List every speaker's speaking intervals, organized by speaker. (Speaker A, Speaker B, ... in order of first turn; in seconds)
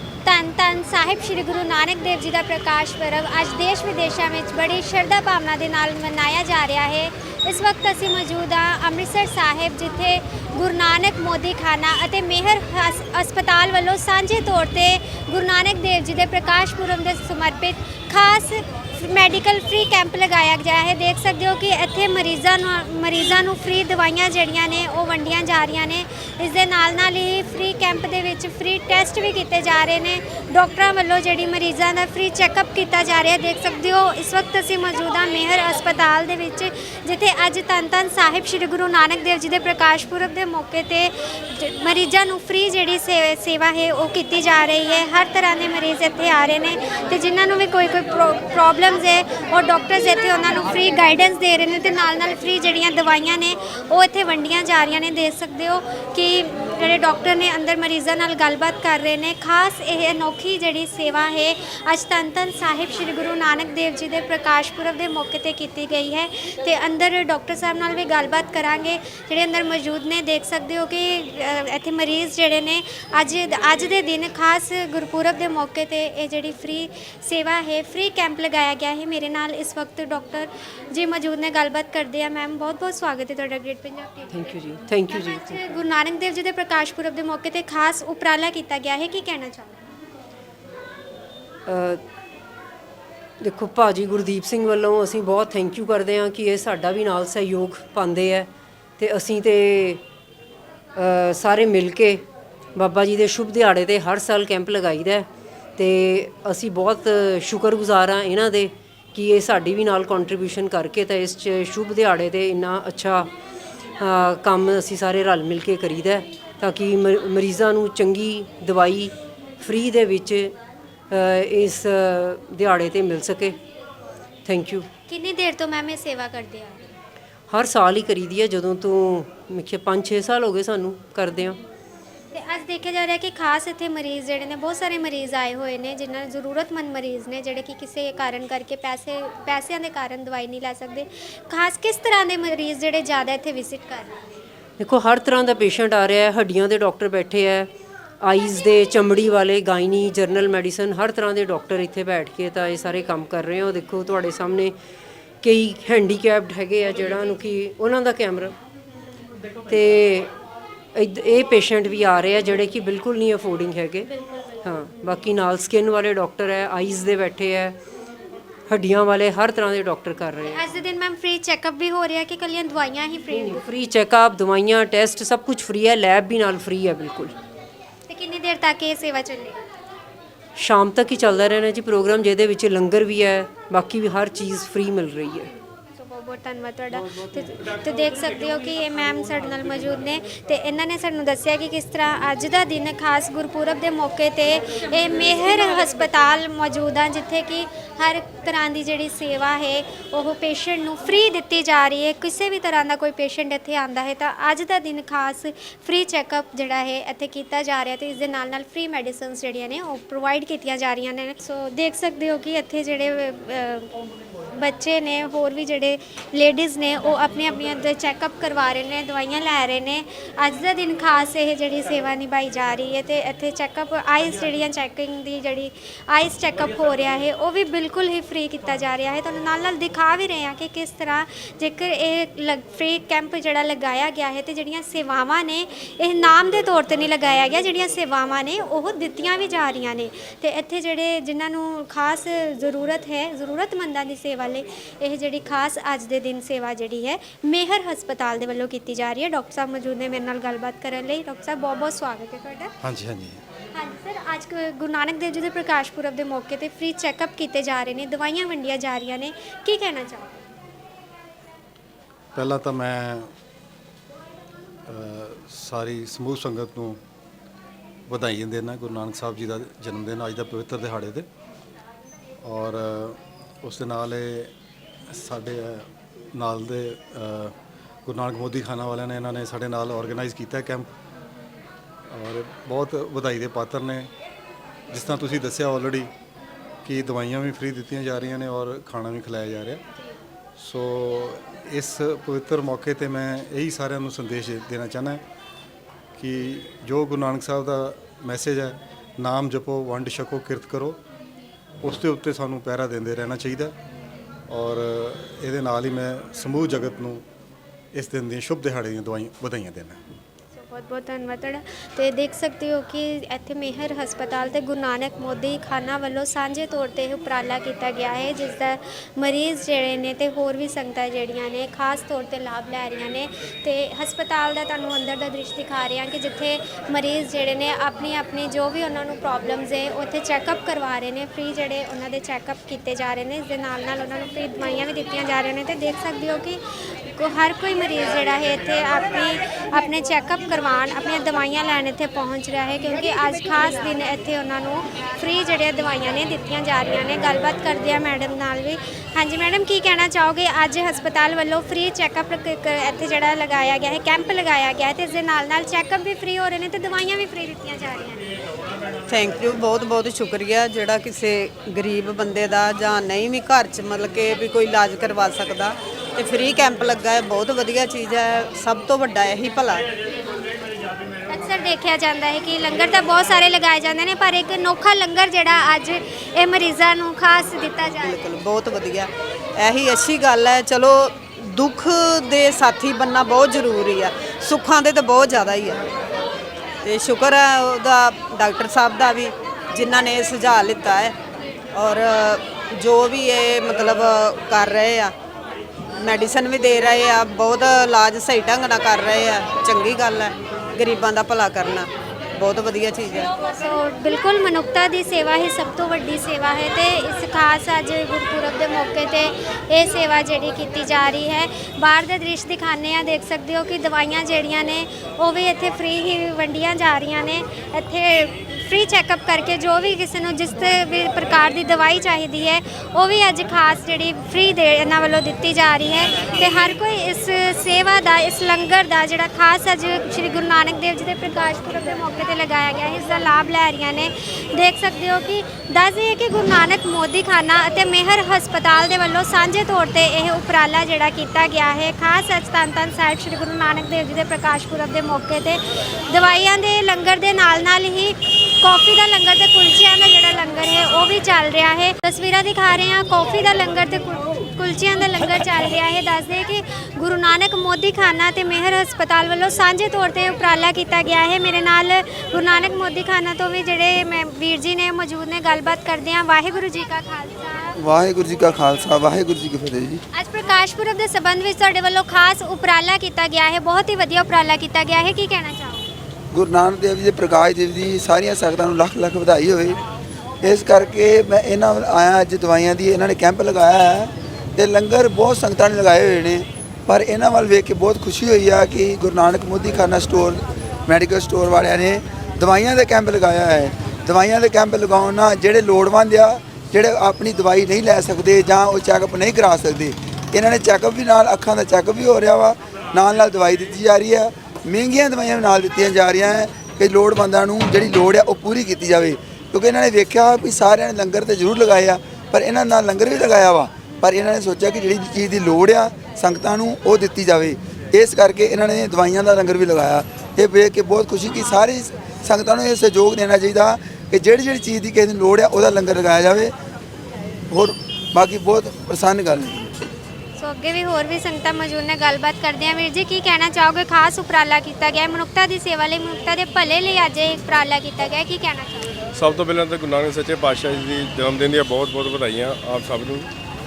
Speaker A: 0.2-89.8, 125.1-126.8, 132.3-144.2, 170.4-173.6, 178.1-179.6, 185.9-213.9, 214.5-252.7, 253.7-260.4, 310.5-358.3, 371.3-378.2, 403.4-467.8, 470.1-475.9, 530.4-538.9
Speaker B: 84.3-85.6, 91.7-92.0, 93.4-100.0, 100.9-102.2, 102.7-113.3, 114.0-120.5, 121.1-123.6, 124.5-124.9, 127.5-131.6, 144.8-147.7, 148.2-154.7, 155.4-158.5, 159.7-160.3, 160.9-164.1, 164.6-167.8, 168.7-170.6, 173.3-177.3, 180.6-185.5
Speaker C: 252.8-253.4, 262.3-263.3, 264.9-267.0, 268.1-271.3, 272.4-274.5, 275.1-277.5, 278.1-280.9, 282.1-284.1, 284.9-286.1, 286.8-289.8, 290.6-295.2, 296.2-301.0, 301.8-303.7, 304.5-307.2, 307.9-310.0
Speaker D: 359.1-369.9, 378.0-385.8, 386.8-391.1, 391.7-395.1, 396.0-403.3
Speaker E: 467.8-470.0, 476.3-479.8, 480.4-526.5, 527.5-529.7
Speaker F: 539.1-543.3